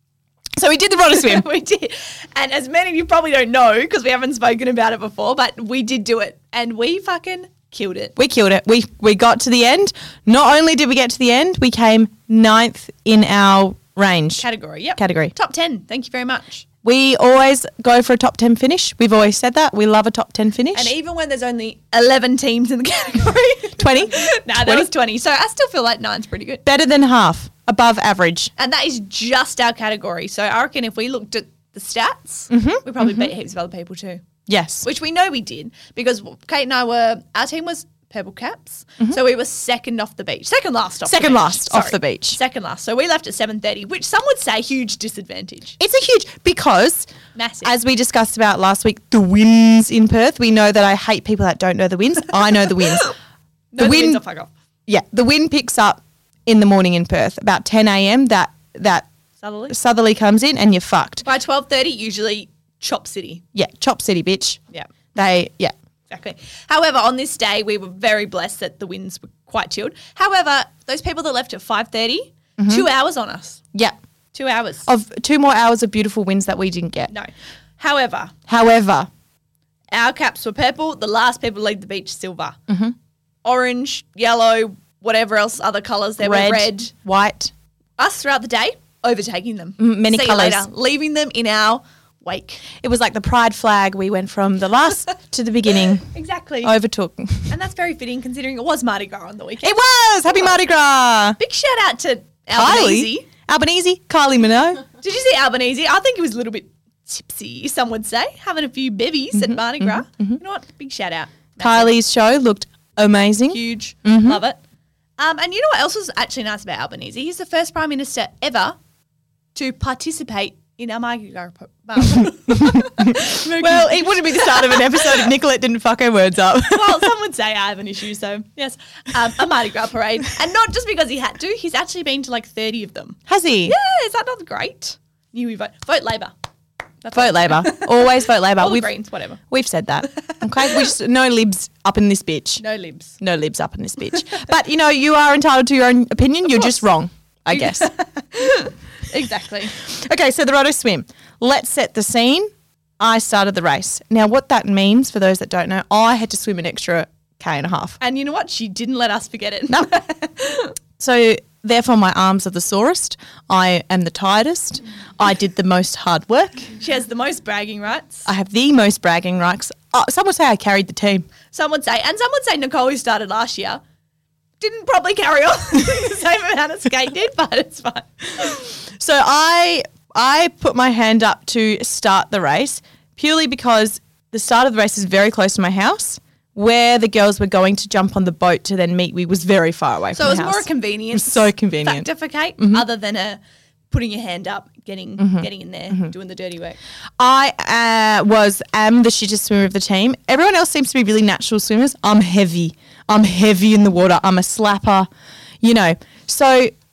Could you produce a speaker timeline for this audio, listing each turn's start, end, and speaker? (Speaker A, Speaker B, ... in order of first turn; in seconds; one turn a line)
Speaker A: 0.6-1.4
Speaker B: 1.1-8.2
Speaker A: 8.2-14.4
Speaker B: 14.4-16.6
Speaker A: 15.0-15.3
Speaker A: 16.8-20.9
Speaker B: 20.7-26.6
Speaker A: 23.8-24.9
Speaker A: 26.6-28.5
Speaker B: 28.6-34.2
Speaker A: 32.5-33.3
Speaker A: 34.5-34.8
Speaker B: 34.8-45.8
Speaker A: 41.0-42.4
Speaker A: 45.8-47.1
Speaker B: 47.3-47.7
Speaker A: 47.6-53.1
Speaker B: 53.7-54.5
Speaker A: 53.8-54.2
Speaker A: 54.9-59.1
Speaker B: 59.4-59.7
Speaker A: 59.7-61.2
Speaker B: 61.2-63.4
Speaker A: 63.5-64.6
Speaker A: 65.1-65.7
Speaker B: 66.1-73.6
Speaker A: 72.6-72.9
Speaker B: 74.3-74.9
Speaker A: 74.9-77.1
Speaker B: 77.1-78.3
Speaker A: 78.5-79.1
Speaker B: 79.9-82.6
Speaker A: 82.7-82.9
Speaker B: 83.4-86.9
Speaker A: 86.2-87.5
Speaker B: 88.0-92.6
Speaker A: 89.8-90.7
Speaker A: 92.8-96.1
Speaker B: 96.1-96.7
Speaker A: 96.6-97.5
Speaker B: 97.5-100.6
Speaker A: 99.6-101.4
Speaker B: 101.4-103.3
Speaker A: 102.5-104.8
Speaker B: 105.0-111.9
Speaker A: 109.3-110.4
Speaker A: 111.6-114.4
Speaker B: 113.5-114.6
Speaker B: 115.2-118.8
Speaker B: 119.5-125.3
Speaker A: 122.2-127.1
Speaker B: 126.7-136.3
Speaker A: 133.3-133.8
Speaker B: 137.0-139.4
Speaker A: 137.1-142.6
Speaker B: 142.6-143.2
Speaker A: 143.2-147.9
Speaker B: 147.5-149.8
Speaker A: 149.7-158.0
Speaker B: 158.0-160.8
Speaker A: 161.0-166.7
Speaker B: 166.8-168.3
Speaker A: 168.2-171.3
Speaker B: 171.5-173.8
Speaker B: 174.6-178.6
Speaker A: 178.9-192.8
Speaker B: 190.1-193.4
Speaker B: 193.9-196.8
Speaker A: 195.2-196.1
Speaker A: 197.2-205.1
Speaker A: 205.6-206.8